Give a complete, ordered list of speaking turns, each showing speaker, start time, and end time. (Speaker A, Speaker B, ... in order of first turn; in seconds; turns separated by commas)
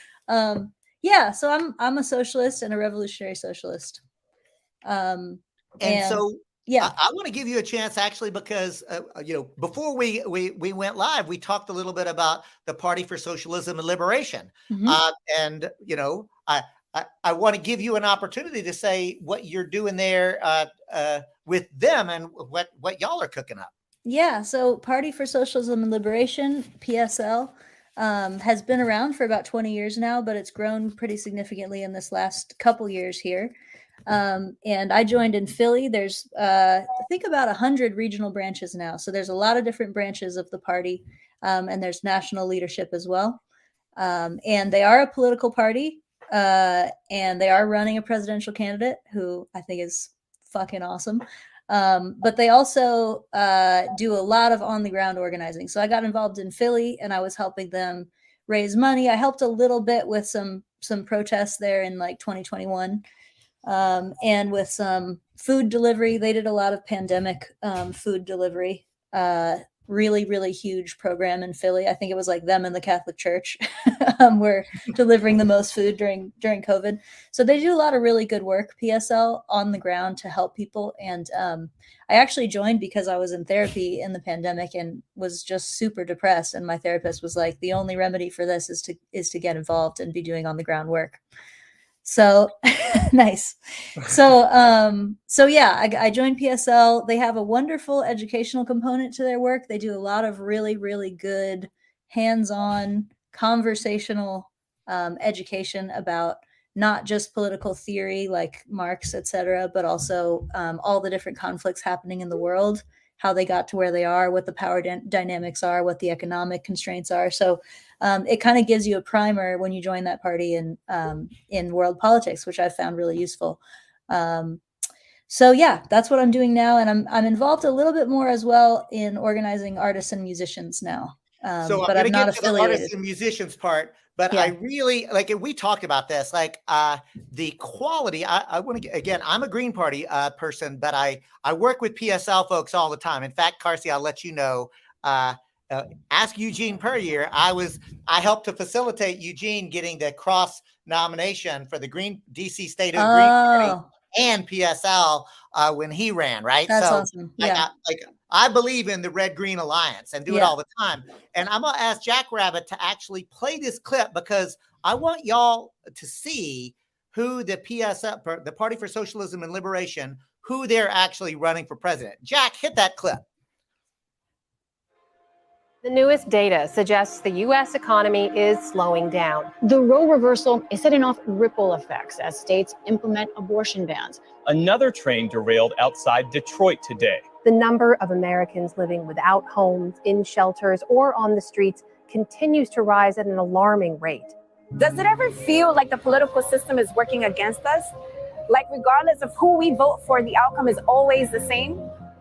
Speaker A: 0.3-4.0, Speaker A: 4.8-6.9, Speaker B: 5.8-23.7, Speaker A: 14.7-15.0, Speaker A: 24.0-33.5, Speaker A: 34.1-43.4, Speaker A: 44.0-63.0, Speaker A: 63.6-91.2, Speaker A: 92.0-124.6, Speaker A: 125.3-132.9, Speaker B: 131.6-173.2, Speaker A: 152.9-153.8, Speaker A: 156.7-157.7, Speaker A: 160.3-160.5, Speaker C: 175.8-179.5, Speaker D: 179.6-184.2, Speaker E: 184.4-187.3, Speaker C: 187.4-194.3, Speaker F: 194.8-197.9, Speaker F: 198.5-201.9